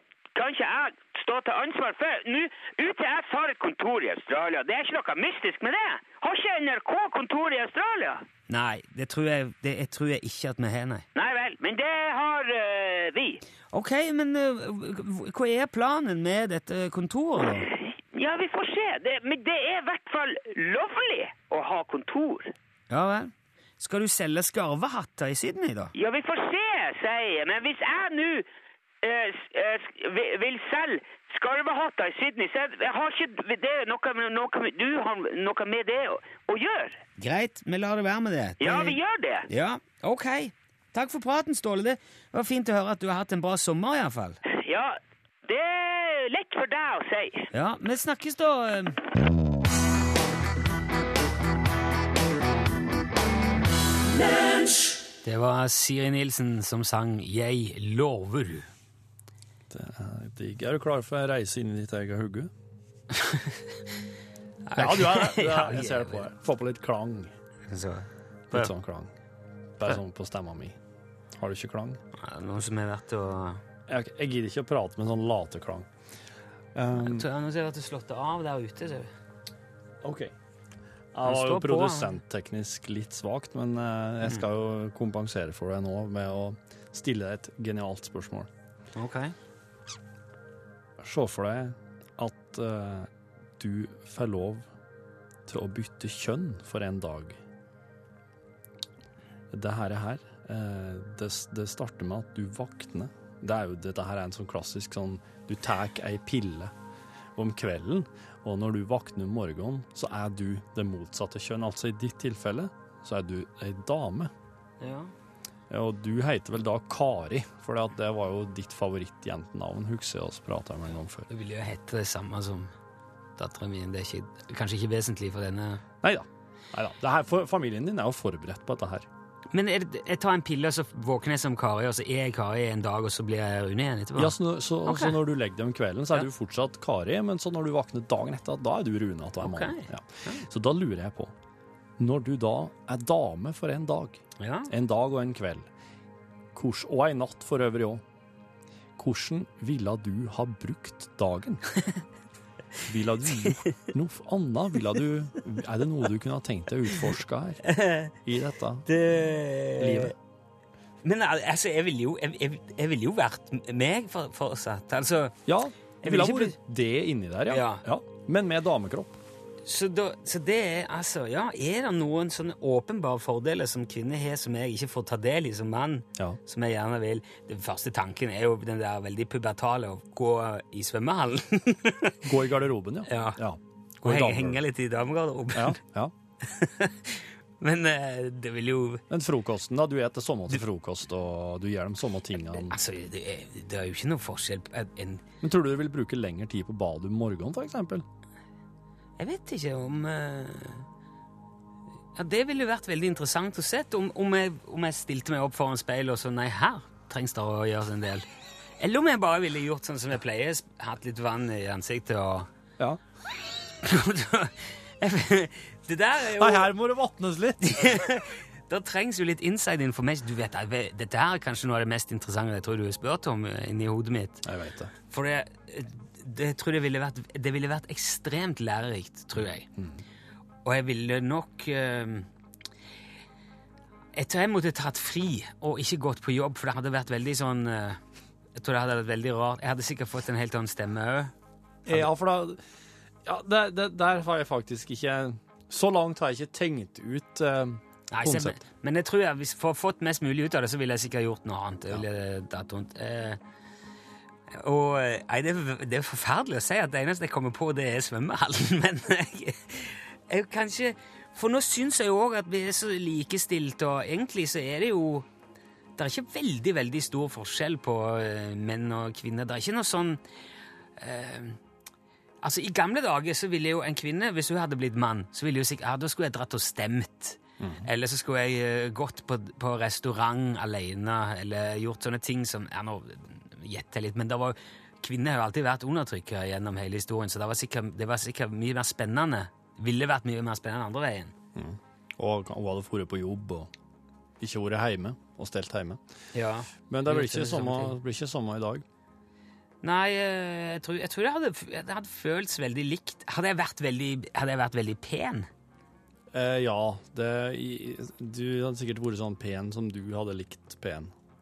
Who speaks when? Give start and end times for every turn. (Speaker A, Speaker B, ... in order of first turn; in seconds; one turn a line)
Speaker A: 0.3-8.2
Speaker B: 8.5-11.1
Speaker A: 11.1-13.4
Speaker B: 13.7-17.7
Speaker A: 17.7-22.5
Speaker B: 22.9-25.9
Speaker A: 25.9-28.4
Speaker A: 29.0-37.0
Speaker B: 37.2-44.4
Speaker A: 38.6-39.5
Speaker A: 44.5-47.5
Speaker B: 47.5-49.0
Speaker B: 55.2-58.7
Speaker C: 59.7-62.5
Speaker B: 63.1-63.8
Speaker B: 64.7-66.3
Speaker C: 64.8-67.3
Speaker B: 67.7-68.7
Speaker C: 68.5-69.1
Speaker C: 69.8-70.8
Speaker C: 71.3-72.0
Speaker B: 72.1-73.6
Speaker C: 73.9-75.9
Speaker C: 76.7-77.3
Speaker B: 76.9-79.1
Speaker C: 80.0-80.3
Speaker C: 81.1-88.5
Speaker B: 81.2-82.2
Speaker B: 88.9-89.3
Speaker C: 91.0-94.7
Speaker C: 95.5-97.4
Speaker C: 99.5-106.7
Speaker C: 107.3-114.3
Speaker B: 114.8-115.1
Speaker C: 115.7-121.3
Speaker B: 121.3-122.7
Speaker B: 123.4-125.8
Speaker C: 126.0-129.1
Speaker B: 129.5-135.2
Speaker C: 134.1-141.3
Speaker B: 139.4-140.4
Speaker C: 142.0-145.7
Speaker B: 144.4-144.7
Speaker C: 146.5-148.0
Speaker C: 149.0-151.6
Speaker C: 152.8-157.6
Speaker B: 157.7-158.1
Speaker C: 158.2-158.8
Speaker B: 158.8-160.1
Speaker C: 159.8-160.1
Speaker B: 161.0-165.4
Speaker C: 165.4-169.2
Speaker B: 166.0-166.6
Speaker B: 167.5-167.8
Speaker B: 169.6-182.2
Speaker C: 182.2-184.6
Speaker B: 183.1-183.4
Speaker B: 184.0-185.8
Speaker C: 185.5-186.1
Speaker B: 186.4-189.0
Speaker C: 189.1-192.7
Speaker B: 192.6-195.2
Speaker C: 195.4-198.0
Speaker B: 199.2-200.8
Speaker B: 202.2-208.2
Speaker B: 208.8-212.5
Speaker B: 213.8-216.7
Speaker C: 216.4-218.0
Speaker B: 217.6-224.4
Speaker C: 224.4-224.9
Speaker B: 225.1-229.7
Speaker B: 230.6-232.3
Speaker B: 234.2-238.0
Speaker B: 238.5-241.3
Speaker C: 241.8-242.6
Speaker C: 243.2-248.6
Speaker B: 248.1-253.4
Speaker B: 254.5-265.3
Speaker B: 266.0-270.2
Speaker B: 271.0-271.6
Speaker B: 272.4-291.3
Speaker C: 277.6-277.9
Speaker C: 291.5-293.7
Speaker C: 294.4-296.0
Speaker B: 296.3-297.9
Speaker C: 296.9-298.8
Speaker B: 299.8-305.5
Speaker C: 306.3-311.1